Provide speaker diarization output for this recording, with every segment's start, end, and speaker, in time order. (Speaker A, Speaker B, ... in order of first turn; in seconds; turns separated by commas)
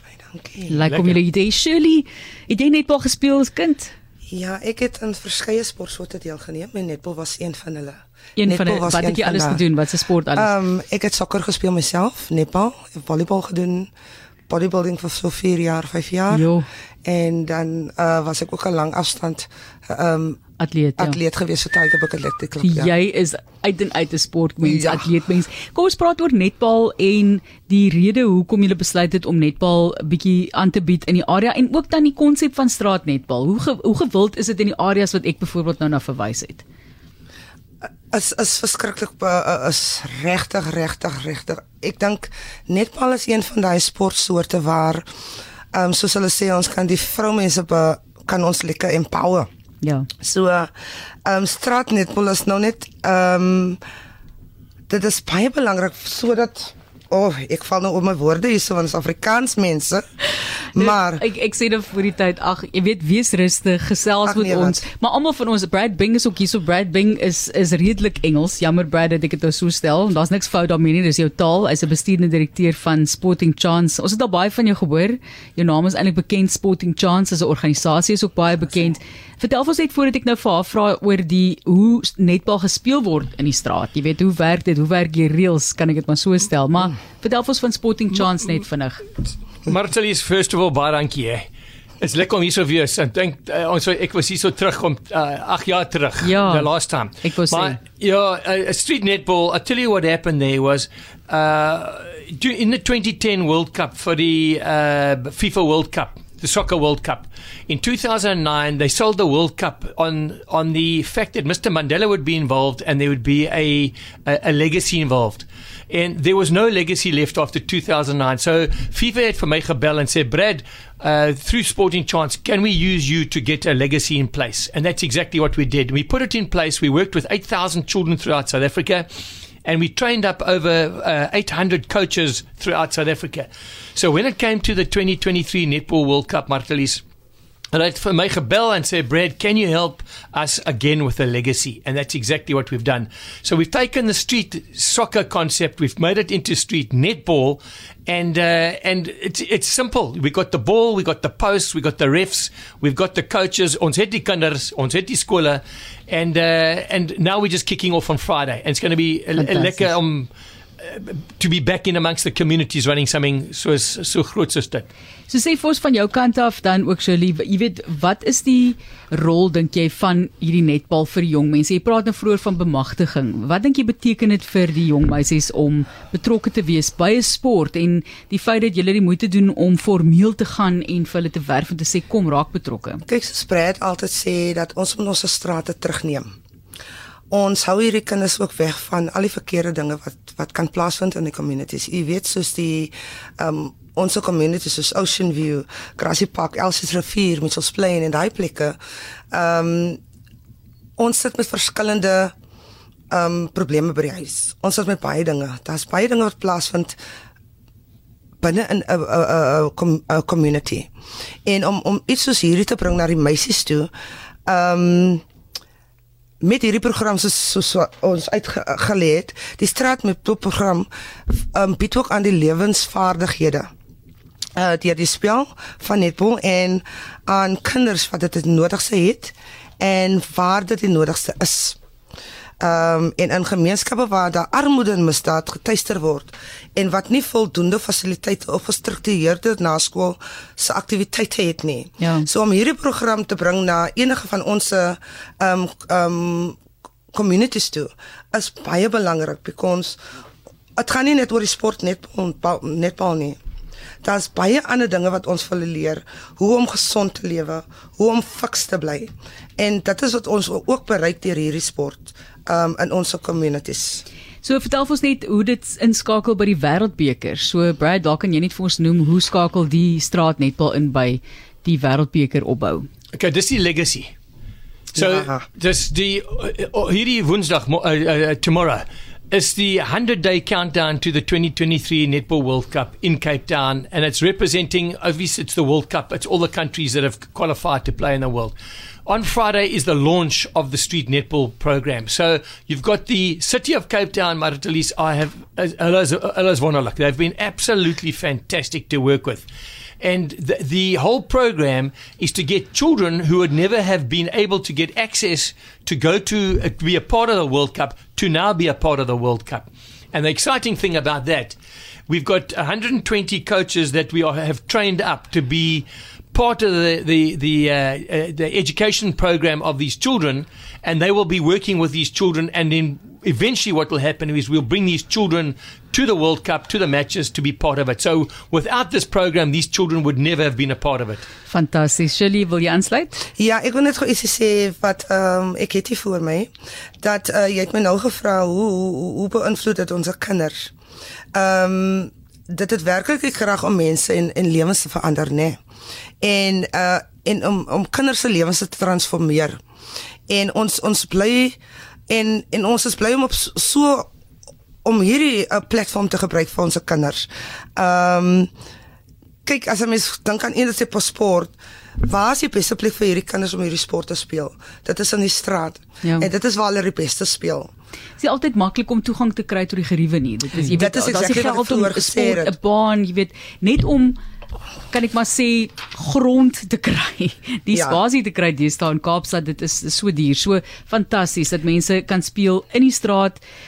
Speaker A: 0.2-0.8, Speaker B: 0.7-3.9, Speaker C: 0.9-1.2, Speaker A: 4.3-9.6, Speaker B: 8.4-10.5, Speaker A: 10.3-13.9, Speaker A: 14.5-16.5, Speaker B: 16.3-16.7, Speaker A: 17.0-20.4, Speaker B: 20.6-21.2, Speaker A: 21.0-22.9, Speaker B: 22.6-36.6, Speaker A: 24.6-25.1, Speaker A: 38.1-45.0, Speaker A: 45.7-49.5, Speaker B: 49.8-50.1, Speaker A: 50.2-50.7, Speaker A: 51.2-53.8, Speaker A: 54.9-60.0, Speaker A: 60.7-61.2, Speaker B: 60.8-89.0, Speaker A: 64.2-64.8, Speaker C: 89.7-91.5, Speaker C: 92.0-129.1, Speaker B: 96.2-96.7, Speaker B: 97.2-97.8, Speaker C: 129.6-137.0, Speaker C: 137.7-164.9, Speaker B: 159.3-159.9, Speaker B: 165.3-183.0, Speaker A: 183.1-186.3, Speaker A: 187.3-198.8, Speaker A: 199.3-200.0, Speaker A: 201.0-202.3, Speaker A: 203.1-207.0, Speaker A: 208.4-210.9, Speaker A: 211.4-213.9, Speaker A: 214.4-215.2, Speaker A: 216.4-223.7, Speaker A: 224.6-231.8, Speaker A: 232.6-246.6, Speaker B: 242.0-242.2, Speaker A: 247.1-250.0, Speaker A: 250.8-253.4, Speaker A: 254.0-264.0, Speaker B: 264.4-272.9, Speaker C: 273.1-274.1, Speaker C: 274.9-299.5, Speaker A: 274.9-275.4, Speaker C: 300.0-311.6, Speaker C: 312.1-331.2, Speaker B: 331.5-333.2, Speaker A: 333.4-336.5, Speaker A: 337.0-340.7, Speaker A: 341.3-345.6, Speaker A: 346.2-349.6, Speaker A: 350.3-351.6, Speaker A: 352.1-354.1, Speaker A: 354.8-358.5, Speaker A: 359.4-367.7, Speaker B: 366.0-366.3, Speaker B: 368.2-374.2, Speaker A: 370.7-372.5, Speaker B: 374.9-383.4, Speaker A: 377.7-378.0